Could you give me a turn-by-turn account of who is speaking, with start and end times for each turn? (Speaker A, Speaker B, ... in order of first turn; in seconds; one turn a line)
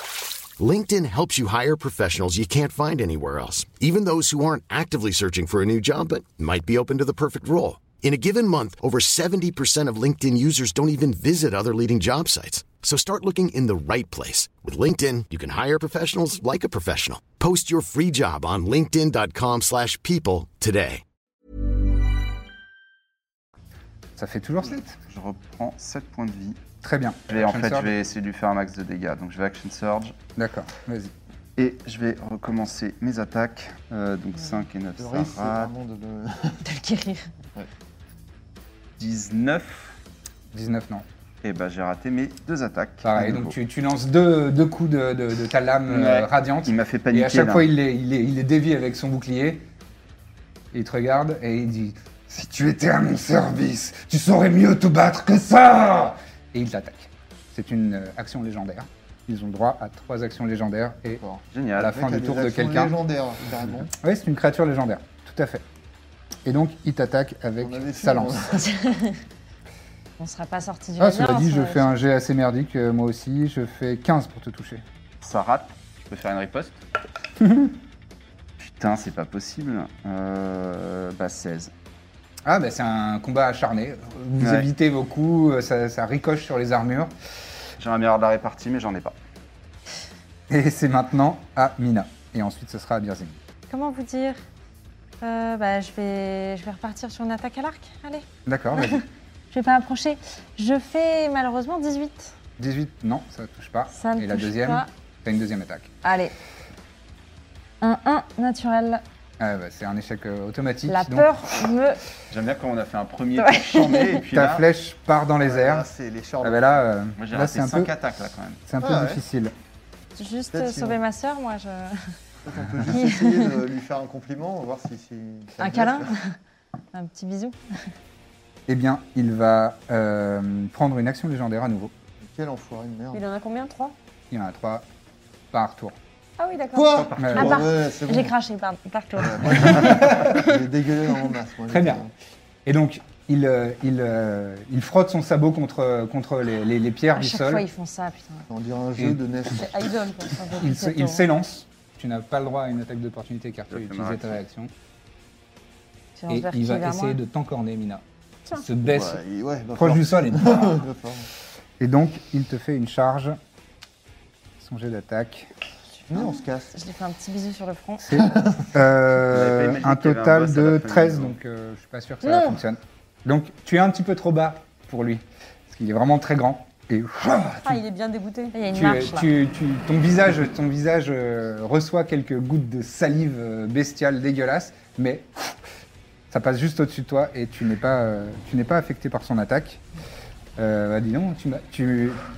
Speaker A: 0.6-21.0
Speaker B: 24.1-25.0
Speaker C: 25.1-26.6
Speaker B: 26.8-27.9
Speaker C: 27.3-30.1
Speaker B: 30.4-31.1
Speaker C: 31.6-35.7
Speaker D: 35.0-36.6
Speaker E: 36.6-37.3
Speaker C: 39.0-40.0
Speaker B: 40.5-41.0
Speaker C: 41.4-43.5
Speaker B: 43.0-49.6
Speaker C: 45.9-47.7
Speaker B: 50.7-61.2
Speaker D: 61.1-63.9
Speaker C: 61.5-62.1
Speaker B: 61.8-63.0
Speaker B: 64.0-65.6
Speaker B: 66.5-68.4
Speaker D: 67.6-68.8
Speaker E: 68.6-69.2
Speaker E: 70.2-71.8
Speaker B: 71.0-74.8
Speaker C: 75.2-76.8
Speaker B: 77.4-77.7
Speaker C: 78.6-81.7
Speaker B: 82.5-87.1
Speaker C: 84.4-84.7
Speaker C: 87.8-89.1
Speaker B: 90.5-93.4
Speaker E: 93.7-94.4
Speaker E: 95.2-102.3
Speaker B: 98.5-99.0
Speaker B: 102.6-105.9
Speaker E: 103.9-104.9
Speaker E: 106.0-106.3
Speaker E: 107.8-109.0
Speaker B: 109.4-111.3
Speaker E: 110.9-112.0
Speaker C: 112.3-114.7
Speaker E: 113.3-114.2
Speaker B: 114.3-115.9
Speaker D: 115.4-116.8
Speaker B: 116.4-117.9
Speaker C: 117.2-118.6
Speaker B: 118.7-119.5
Speaker D: 118.8-119.2
Speaker E: 120.1-122.2
Speaker D: 120.5-121.0
Speaker D: 122.4-126.1
Speaker E: 122.8-123.6
Speaker E: 125.6-126.4
Speaker E: 126.9-127.9
Speaker B: 128.7-131.9
Speaker D: 132.2-133.2
Speaker F: 133.1-133.9
Speaker B: 134.3-134.8
Speaker B: 135.5-135.9
Speaker F: 136.4-137.0
Speaker D: 136.7-138.3
Speaker C: 136.9-137.6
Speaker B: 137.2-137.6
Speaker E: 137.3-140.4
Speaker D: 139.2-142.1
Speaker B: 139.6-140.4
Speaker B: 141.7-142.0
Speaker B: 142.7-147.6
Speaker E: 147.1-148.5
Speaker D: 148.5-150.0
Speaker F: 149.5-150.7
Speaker E: 150.5-151.2
Speaker B: 150.6-154.7
Speaker C: 153.7-154.4
Speaker E: 156.1-157.2
Speaker B: 156.3-159.2
Speaker D: 158.8-161.3
Speaker B: 159.7-160.8
Speaker B: 161.8-163.4
Speaker B: 164.6-165.5
Speaker E: 166.1-168.2
Speaker D: 166.1-166.7
Speaker B: 168.0-177.8
Speaker D: 168.1-168.7
Speaker C: 169.3-171.3
Speaker E: 172.2-172.6
Speaker F: 177.6-178.6
Speaker E: 178.5-179.3
Speaker B: 178.7-185.6
Speaker B: 186.3-189.8
Speaker B: 190.6-192.2